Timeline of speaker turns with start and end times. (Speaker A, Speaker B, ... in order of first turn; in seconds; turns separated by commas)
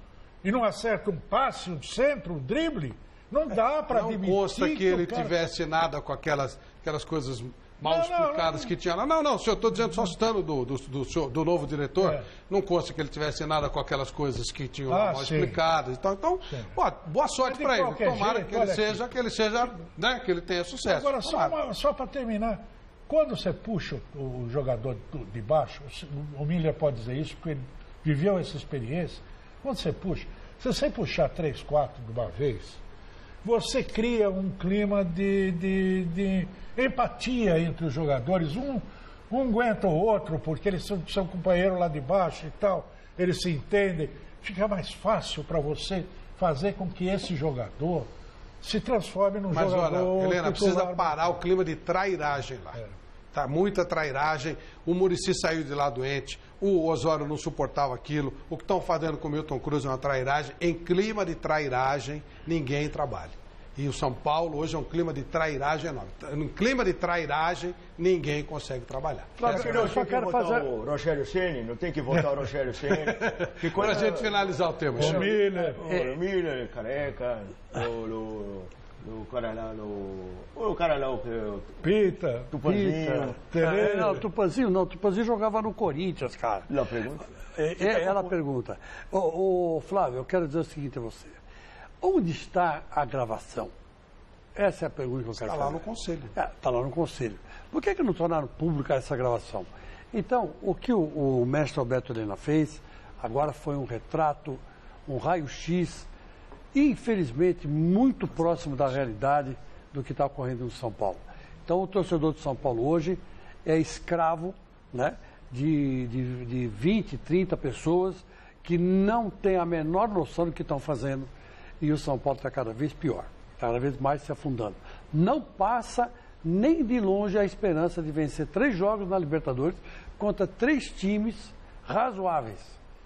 Speaker A: 0.4-5.4, Speaker B: 3.5-21.6, Speaker A: 7.8-8.7, Speaker A: 9.8-10.1, Speaker A: 12.0-12.3, Speaker A: 14.9-15.6, Speaker A: 17.4-19.0, Speaker A: 20.9-32.8, Speaker A: 33.4-48.1, Speaker A: 48.6-51.3, Speaker B: 49.5-52.8, Speaker B: 53.3-69.8, Speaker C: 69.4-70.7, Speaker D: 69.5-81.8, Speaker B: 72.9-75.2, Speaker A: 75.0-75.8, Speaker C: 75.9-76.2, Speaker A: 81.8-84.3, Speaker D: 82.5-83.4, Speaker C: 83.0-86.7, Speaker D: 86.7-87.2, Speaker C: 87.5-91.4, Speaker B: 87.8-88.3, Speaker C: 92.0-93.7, Speaker C: 94.5-95.8, Speaker B: 95.4-96.3, Speaker C: 96.3-106.1, Speaker C: 106.7-121.3, Speaker C: 121.8-132.8